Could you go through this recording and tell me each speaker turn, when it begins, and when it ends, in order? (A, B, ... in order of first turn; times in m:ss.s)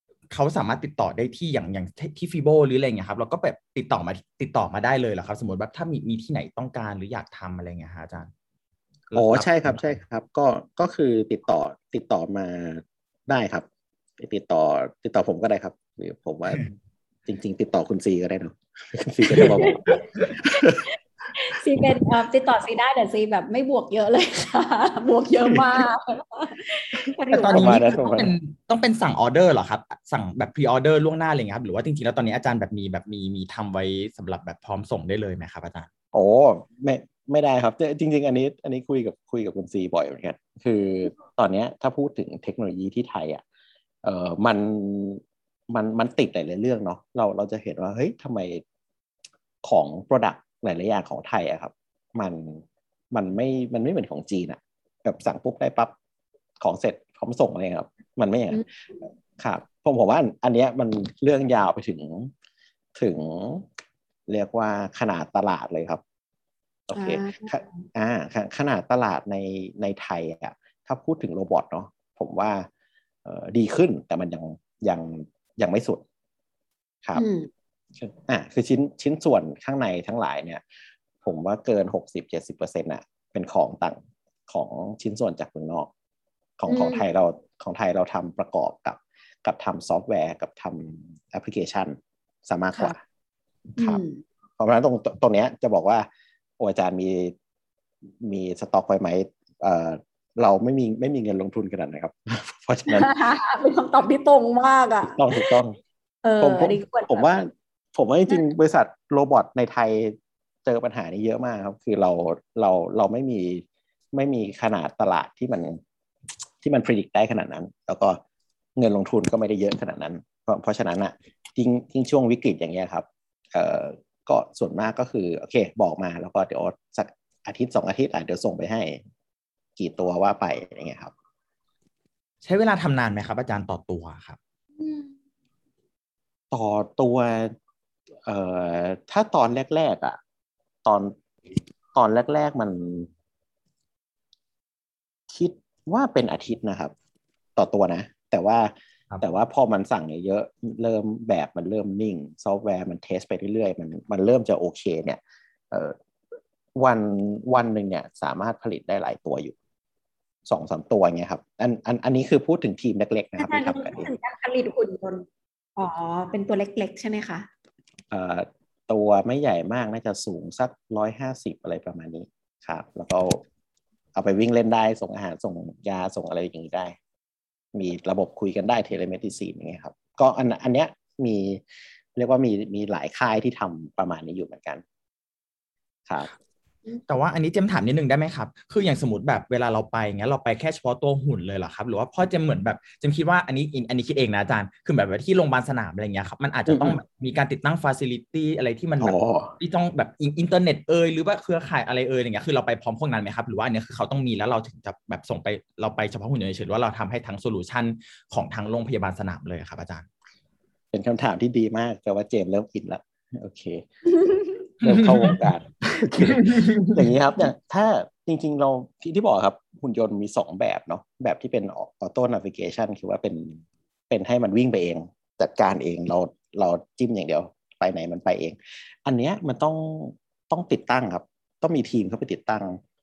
0:00.3-0:08.3 A
0:09.1-0:09.8 A
0:09.1-0:13.6 B
0:14.2-0:16.6 B
0:17.3-0:20.8 B
0:19.4-0:20.0 C
0:21.3-0:28.2 C
0:27.3-0:35.9 A
0:27.5-0:28.3 B
0:36.1-0:43.4 B
0:44.0-0:48.6 B
0:49.6-0:55.9 B
0:56.6-0:58.6 B
0:59.4-1:02.3 B
1:03.0-1:03.7 B
1:04.3-1:06.0 B
1:06.9-1:12.7 B
1:06.9-1:07.8 C
1:13.2-1:16.0 B
1:17.1-1:17.5 C
1:18.0-1:20.6 B
1:21.2-1:25.9 B
1:26.6-1:32.0 B
1:26.7-1:27.0 C
1:32.5-1:33.0 B
1:33.8-1:34.2 C
1:34.6-1:36.1 B
1:36.6-1:37.3 B
1:38.2-1:43.1 B
1:42.9-1:45.5 C
1:45.0-1:45.8 B
1:46.2-1:47.3 C
1:46.4-1:55.8 B
1:56.6-1:58.2 B
1:58.8-2:09.0 B
2:09.8-2:11.1 B
2:12.4-2:14.4 A
2:14.8-2:15.1 C
2:16.5-2:17.5 B
2:18.2-2:20.2 B
2:20.8-2:21.1 B
2:21.9-2:23.1 B
2:25.3-2:26.9 B
2:27.6-2:28.7 B
2:29.2-2:35.2 B
2:35.7-2:36.0 B
2:36.8-2:39.5 B
2:40.4-2:44.1 B
2:43.4-2:45.2 C
2:45.8-2:47.5 C
2:48.1-2:53.4 B
2:54.1-2:57.0 B
2:57.7-3:01.6 B
3:02.2-3:04.8 B
3:07.1-3:30.1 A
3:16.7-3:17.0 B
3:19.0-3:19.5 B
3:30.9-3:33.8 B
3:34.1-3:34.6 C
3:34.8-3:52.8 B
3:34.8-3:35.4 A
3:36.3-3:37.0 A